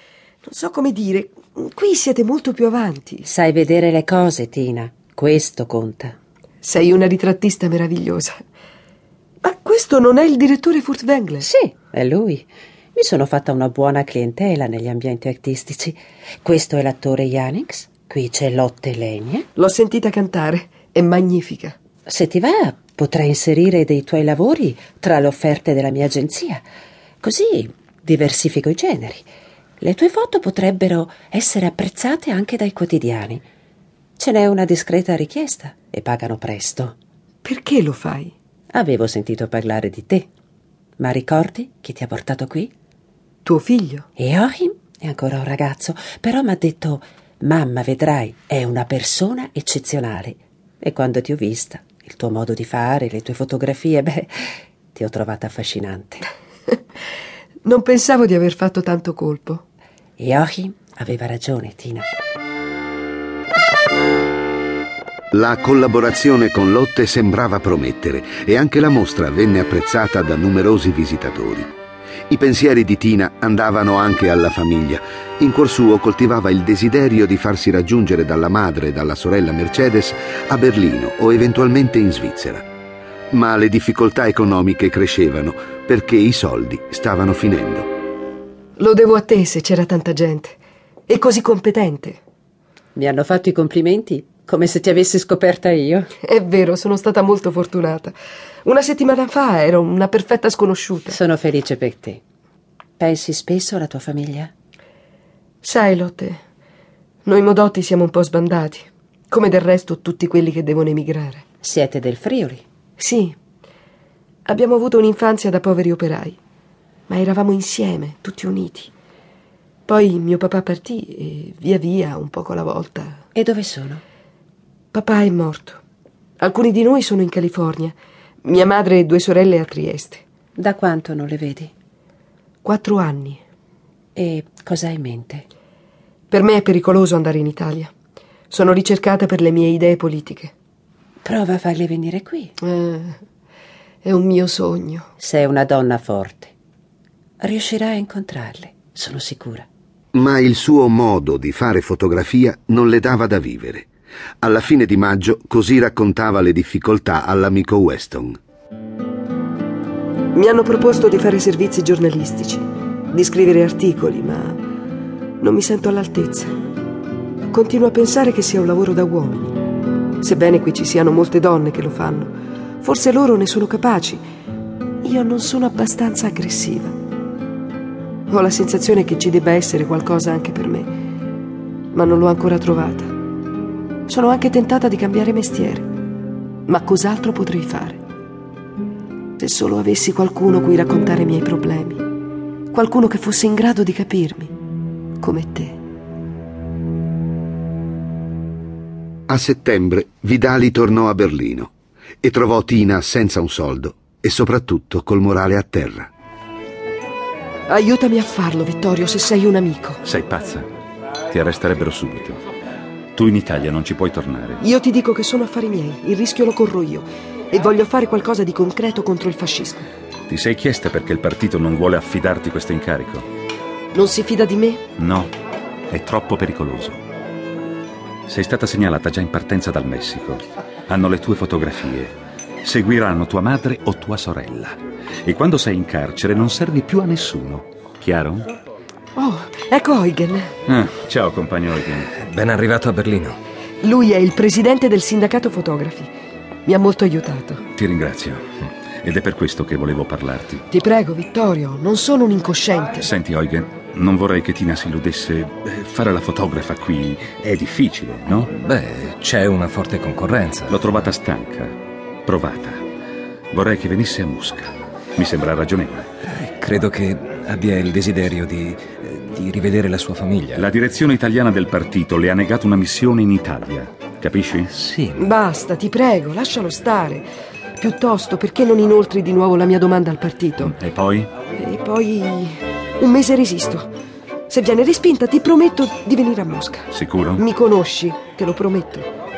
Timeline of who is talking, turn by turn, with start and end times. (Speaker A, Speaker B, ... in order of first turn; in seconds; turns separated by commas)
Speaker A: 0.4-3.3, Speaker B: 3.2-6.2, Speaker A: 6.6-8.4, Speaker A: 9.4-11.5, Speaker B: 11.4-19.5, Speaker A: 19.6-21.8, Speaker B: 22.1-26.6, Speaker B: 27.2-29.3, Speaker B: 29.8-33.5, Speaker B: 34.2-37.0, Speaker A: 37.4-38.3, Speaker B: 38.7-40.3, Speaker B: 41.0-42.7, Speaker A: 43.4-44.1, Speaker B: 44.2-56.3, Speaker A: 57.6-59.6, Speaker B: 60.2-62.1, Speaker C: 65.3-71.7, Speaker C: 72.3-82.7, Speaker C: 83.3-87.9, Speaker A: 88.8-92.2, Speaker B: 93.0-96.1, Speaker A: 96.2-101.2, Speaker B: 101.1-102.2, Speaker B: 103.0-104.5, Speaker A: 105.6-106.4, Speaker A: 107.2-111.5, Speaker B: 111.6-112.6, Speaker A: 113.0-113.4, Speaker A: 114.5-116.4, Speaker A: 117.1-118.9, Speaker A: 119.9-123.2, Speaker B: 123.3-124.0, Speaker A: 124.9-125.8, Speaker A: 126.4-130.2, Speaker B: 130.6-131.7, Speaker A: 132.6-133.4, Speaker B: 134.2-135.4, Speaker A: 136.3-137.9, Speaker A: 138.5-140.5, Speaker B: 141.2-142.6, Speaker A: 142.6-143.2, Speaker A: 144.0-145.1, Speaker B: 145.2-146.5, Speaker B: 147.4-149.7, Speaker C: 150.1-153.9, Speaker C: 154.4-158.4, Speaker A: 160.3-164.6, Speaker A: 165.4-166.6, Speaker A: 167.5-169.6, Speaker A: 170.2-174.2, Speaker A: 175.0-176.9, Speaker A: 178.3-180.9, Speaker A: 181.9-183.1, Speaker A: 184.1-185.9, Speaker A: 186.7-188.0, Speaker A: 189.4-192.1, Speaker A: 192.7-194.5, Speaker A: 195.2-195.8, Speaker C: 199.3-201.7, Speaker C: 202.2-206.1, Speaker A: 207.7-210.0, Speaker D: 210.1-210.7, Speaker D: 211.3-212.4, Speaker D: 213.2-214.6, Speaker A: 214.6-219.9, Speaker D: 220.3-223.3, Speaker A: 223.9-224.8, Speaker D: 225.0-225.3, Speaker D: 225.9-227.0, Speaker D: 228.3-238.5, Speaker A: 239.2-240.5, Speaker D: 240.7-242.2, Speaker E: 242.1-243.4, Speaker A: 243.8-246.1, Speaker A: 246.7-247.6, Speaker D: 247.8-248.5, Speaker D: 249.0-250.7, Speaker A: 250.7-253.1, Speaker D: 253.0-258.5, Speaker E: 258.5-261.1, Speaker D: 260.7-261.8, Speaker D: 262.3-262.8, Speaker D: 263.5-266.1, Speaker E: 266.2-270.7, Speaker D: 270.6-274.7, Speaker E: 274.7-275.2, Speaker A: 275.1-277.2, Speaker A: 277.8-280.7, Speaker D: 280.6-281.3, Speaker A: 281.6-283.9, Speaker A: 284.5-289.1, Speaker D: 286.9-287.4